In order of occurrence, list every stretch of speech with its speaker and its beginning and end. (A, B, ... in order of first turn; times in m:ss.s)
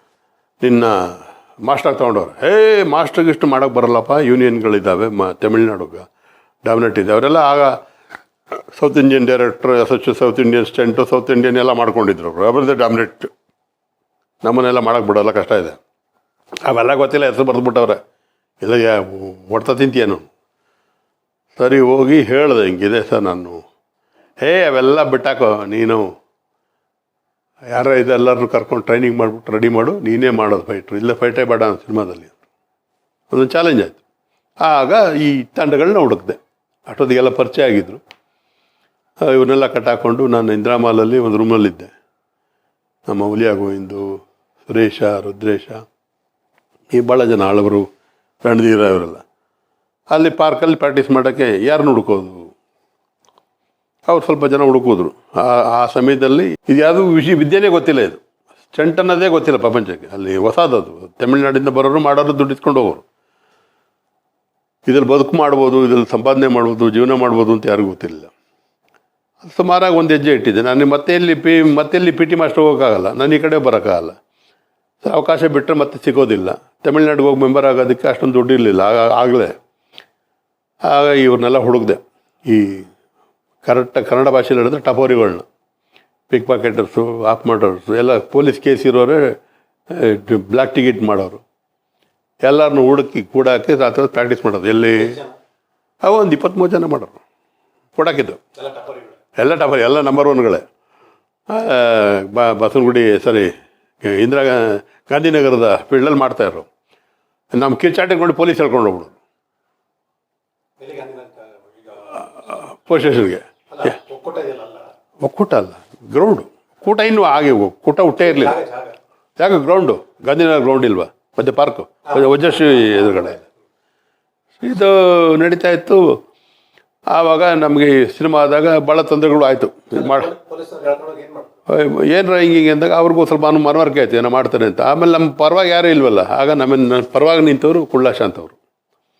0:00.6-0:06.1 A
0:06.6-0:07.8 A
0:08.7-0:13.3 A
0:14.4-0:15.8 A
0:16.6-0:18.0 A
0:18.6-0:20.3 A
0:21.6-0:23.6 A
0:24.4-0:26.1 A
0:27.7-0:32.4 A
0:33.3-0:34.0 A
0:34.6-0:38.0 A
0:39.2-0:41.9 A
0:43.1-0:44.1 A
0:44.7-0:45.8 A
0:46.9-0:47.8 A
0:48.4-0:49.2 A
0:50.1-0:52.5 A
0:54.0-1:03.0 A
1:04.8-1:08.3 A
1:09.4-1:14.2 A
1:15.0-1:19.5 A
1:20.8-1:22.9 A
1:23.6-1:25.4 A
1:26.3-1:29.4 A
1:29.9-1:31.4 A
1:32.4-1:35.2 A
1:35.0-1:35.3 B
1:36.0-1:37.2 A
1:38.0-1:38.4 A
1:38.6-1:39.2 B
1:39.4-1:40.6 A
1:41.5-1:43.5 A
1:44.0-1:46.7 A
1:47.5-1:49.2 A
1:50.8-1:52.2 B
1:52.1-1:53.9 A
1:53.7-1:54.9 B
1:55.2-1:58.6 A
1:58.2-1:59.0 B
1:59.4-2:03.4 A
2:02.1-2:03.3 B
2:04.6-2:06.2 A
2:07.1-2:10.3 A
2:09.9-2:11.5 B
2:11.7-2:18.6 A